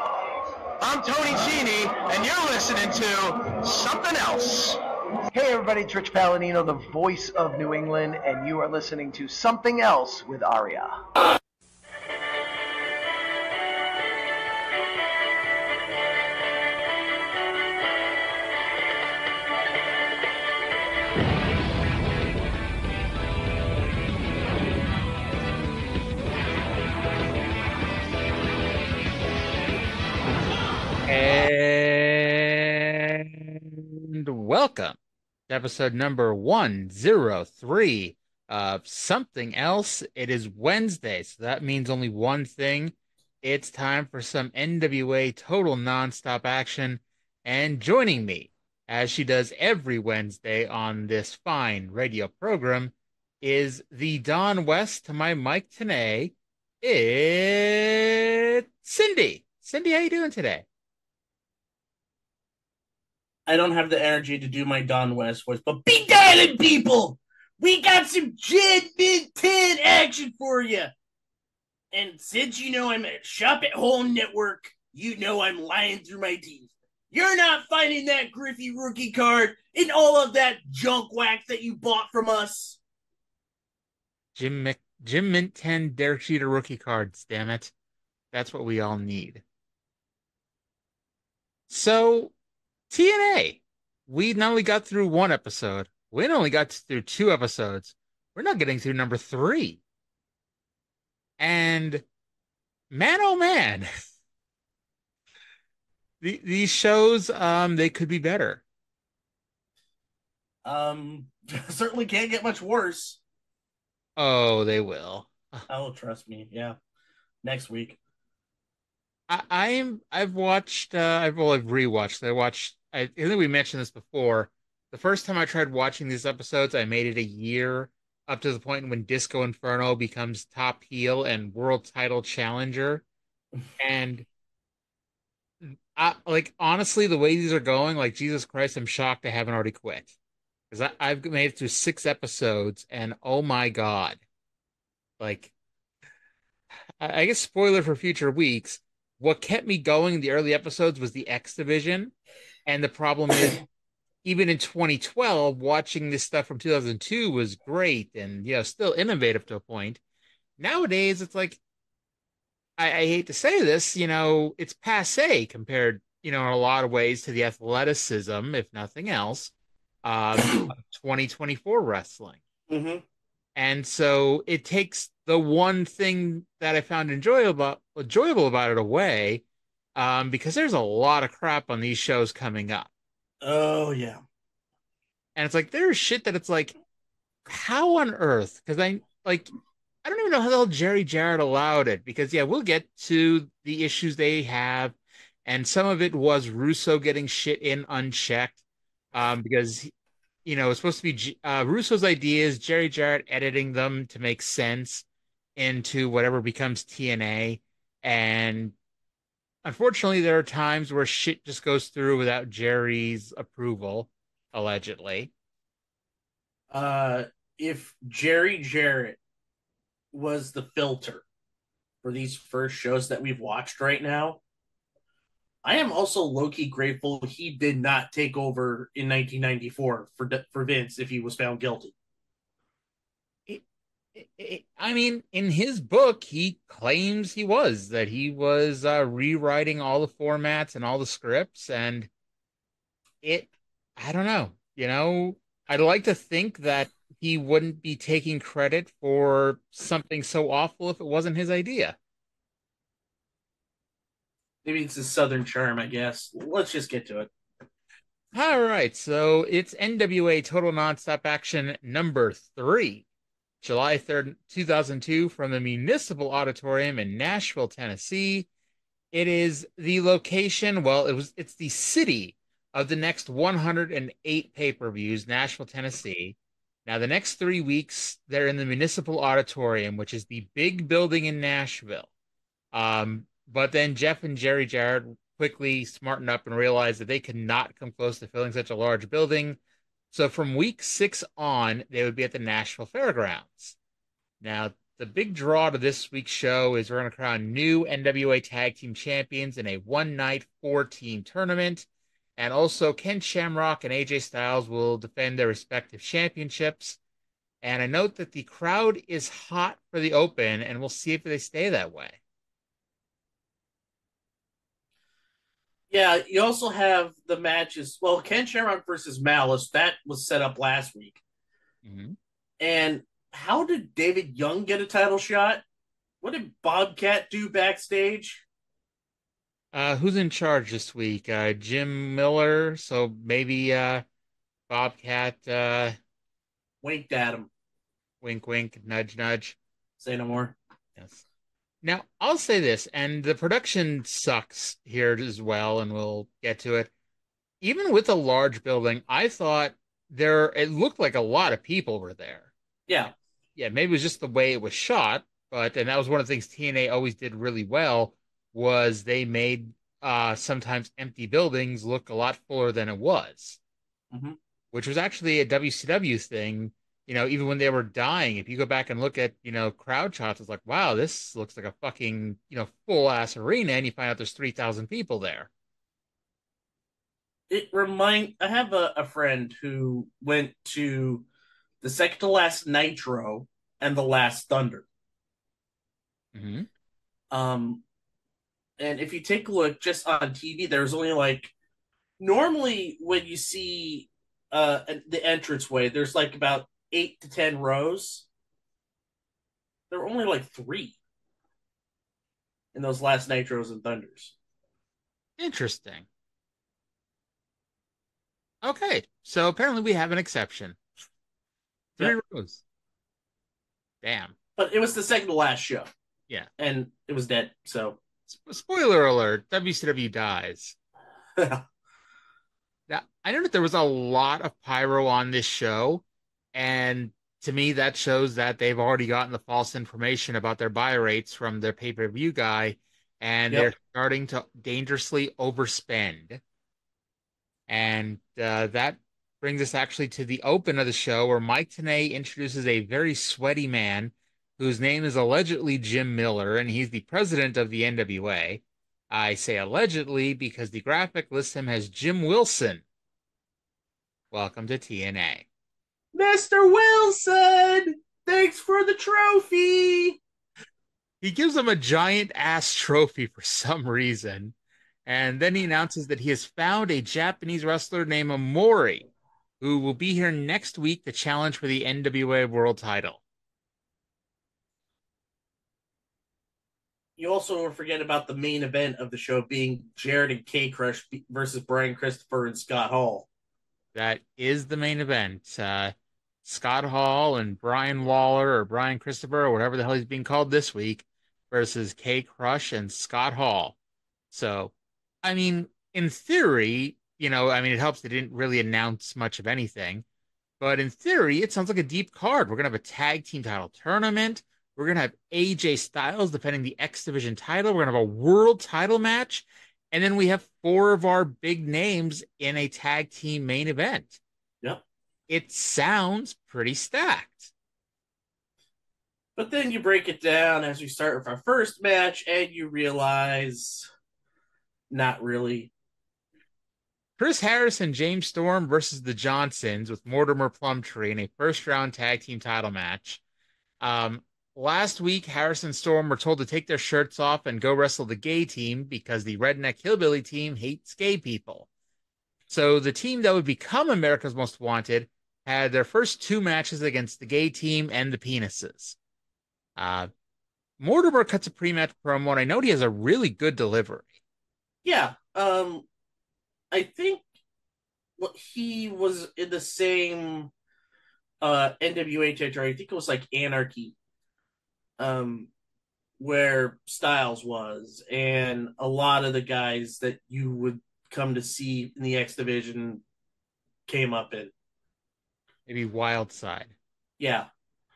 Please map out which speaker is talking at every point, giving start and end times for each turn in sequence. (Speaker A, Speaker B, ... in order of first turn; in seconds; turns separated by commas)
Speaker A: 0.8-4.8, Speaker B: 5.3-11.0, Speaker C: 31.1-35.0, Speaker C: 35.5-60.6, Speaker D: 63.5-70.9, Speaker D: 71.9-82.8, Speaker C: 84.3-87.7, Speaker C: 88.3-89.4, Speaker C: 91.7-92.3, Speaker C: 92.9-99.8, Speaker C: 101.4-102.0, Speaker C: 102.9-103.9, Speaker C: 106.2-108.6, Speaker D: 110.6-113.2, Speaker C: 114.2-115.6, Speaker D: 115.7-116.8, Speaker D: 117.4-118.0, Speaker C: 119.3-133.0, Speaker C: 133.8-134.2, Speaker C: 135.6-140.1, Speaker C: 140.7-144.2, Speaker C: 145.2-145.5, Speaker C: 147.0-152.1, Speaker C: 152.6-153.6, Speaker C: 154.2-160.0, Speaker C: 160.6-161.6, Speaker C: 162.8-169.5, Speaker C: 170.0-172.4, Speaker D: 172.7-173.0, Speaker C: 173.6-179.4, Speaker C: 179.9-182.9, Speaker D: 183.4-184.2, Speaker C: 185.3-186.7, Speaker C: 187.4-189.5, Speaker C: 190.0-198.6, Speaker C: 199.1-199.9, Speaker C: 200.4-205.0, Speaker C: 205.6-208.7, Speaker C: 209.6-215.3, Speaker D: 216.7-219.2, Speaker D: 220.1-221.2, Speaker D: 222.0-224.4, Speaker D: 225.6-231.9, Speaker C: 234.1-242.1, Speaker C: 243.2-251.9, Speaker D: 254.6-257.3, Speaker C: 258.3-263.0, Speaker C: 263.6-268.5, Speaker C: 269.1-282.1, Speaker C: 282.7-289.6, Speaker C: 290.1-293.8, Speaker C: 294.4-307.0, Speaker C: 307.6-312.2, Speaker D: 315.9-321.2, Speaker C: 321.8-322.1, Speaker D: 322.6-325.6, Speaker D: 326.2-328.4, Speaker C: 329.7-334.0, Speaker C: 334.7-335.9, Speaker D: 336.8-337.5, Speaker C: 338.2-339.6, Speaker D: 340.0-340.6, Speaker C: 341.0-341.2, Speaker C: 341.8-346.9, Speaker C: 347.6-352.5, Speaker C: 353.6-363.6, Speaker D: 364.1-364.4, Speaker C: 364.7-375.5, Speaker D: 377.5-381.2, Speaker D: 381.8-384.9, Speaker C: 386.3-386.7, Speaker D: 387.3-387.8, Speaker D: 388.8-391.5, Speaker D: 392.2-398.2, Speaker D: 399.9-401.0, Speaker D: 402.7-404.3, Speaker C: 405.4-406.1, Speaker C: 408.6-410.8, Speaker C: 412.0-412.6, Speaker C: 414.0-414.3, Speaker D: 414.6-415.9, Speaker D: 416.6-418.0, Speaker C: 418.3-420.8, Speaker D: 421.4-421.6, Speaker C: 422.9-436.4, Speaker C: 437.7-452.8, Speaker C: 454.3-455.4, Speaker D: 456.1-460.2, Speaker C: 461.2-464.5, Speaker C: 465.1-469.1, Speaker C: 469.6-473.2, Speaker D: 477.2-483.3, Speaker C: 483.9-485.9, Speaker C: 486.4-493.7, Speaker C: 494.3-494.7, Speaker C: 495.2-500.0, Speaker C: 500.6-514.2, Speaker C: 515.3-517.5, Speaker D: 519.4-523.9, Speaker D: 524.9-525.7, Speaker C: 527.2-533.2, Speaker C: 533.8-541.7, Speaker C: 542.5-549.0, Speaker C: 549.8-550.1, Speaker C: 550.8-554.1, Speaker D: 554.8-555.9, Speaker D: 556.7-557.2, Speaker D: 558.2-560.5, Speaker D: 561.4-563.9, Speaker D: 565.0-565.5, Speaker D: 566.2-573.0, Speaker D: 573.9-574.5, Speaker C: 575.7-576.7, Speaker D: 577.2-577.5